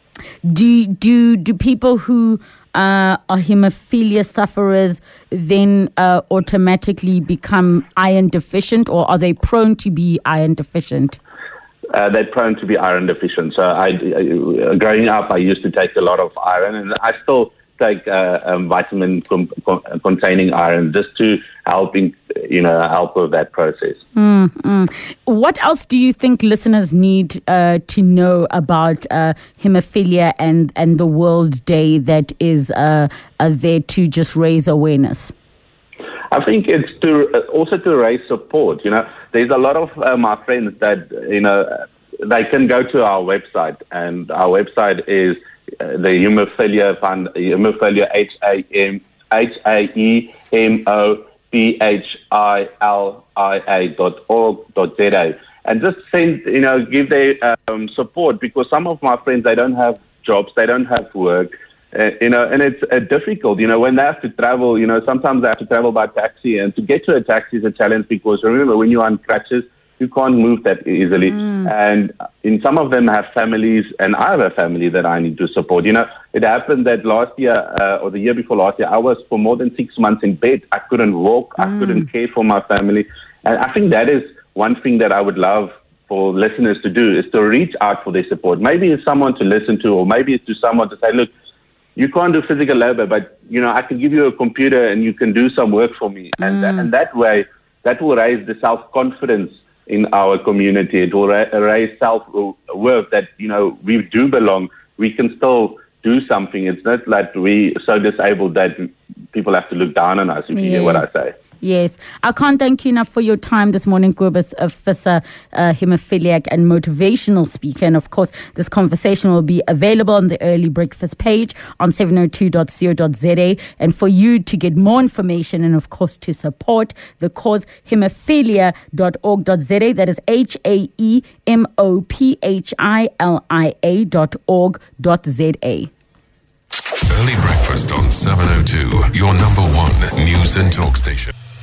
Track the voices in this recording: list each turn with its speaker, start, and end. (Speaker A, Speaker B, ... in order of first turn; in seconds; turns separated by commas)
Speaker A: 0.5-11.2, Speaker B: 11.9-24.0, Speaker A: 24.1-35.3, Speaker B: 36.3-91.3, Speaker B: 92.0-111.3, Speaker A: 110.5-135.9, Speaker C: 137.1-141.3